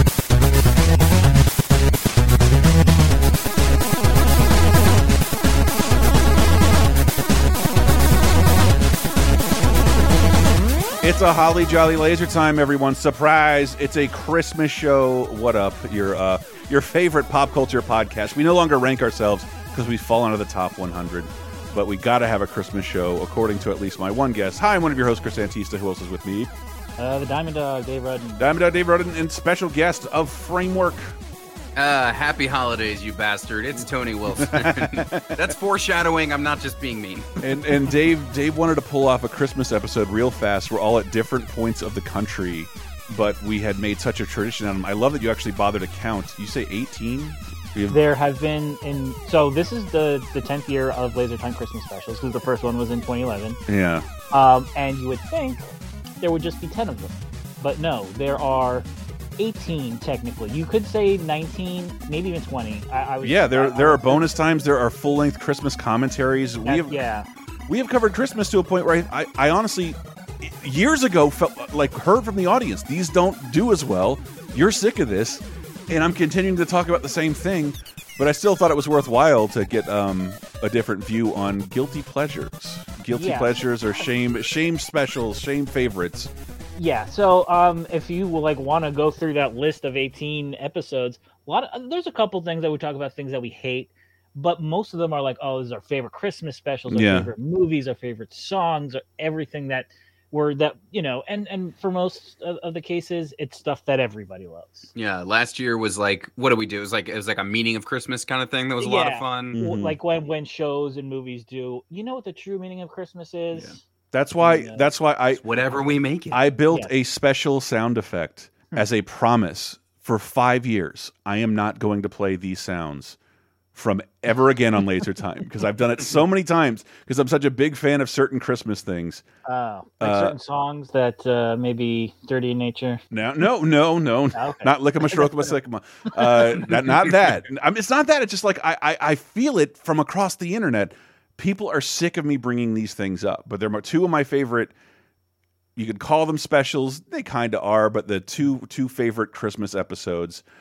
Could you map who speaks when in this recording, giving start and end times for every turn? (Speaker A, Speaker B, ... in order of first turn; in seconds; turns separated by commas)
Speaker A: 11.0-26.5, Speaker B: 27.0-28.4, Speaker A: 28.4-31.1, Speaker C: 31.8-37.3, Speaker A: 34.4-35.3, Speaker A: 37.4-48.0, Speaker B: 47.9-53.6, Speaker A: 53.7-54.0, Speaker B: 54.3-58.9, Speaker B: 59.4-64.3, Speaker A: 63.2-66.9, Speaker B: 66.6-67.2, Speaker A: 67.7-86.3, Speaker B: 83.1-83.7, Speaker B: 86.8-104.9, Speaker A: 96.9-97.3, Speaker C: 104.9-109.5, Speaker B: 108.8-113.8, Speaker A: 109.5-110.0, Speaker A: 114.1-115.4, Speaker B: 114.4-114.8, Speaker C: 115.4-116.4, Speaker A: 116.3-123.2, Speaker A: 123.7-129.2, Speaker B: 129.4-133.0, Speaker A: 130.0-130.3, Speaker A: 133.1-144.7, Speaker B: 134.3-135.5, Speaker A: 145.8-150.4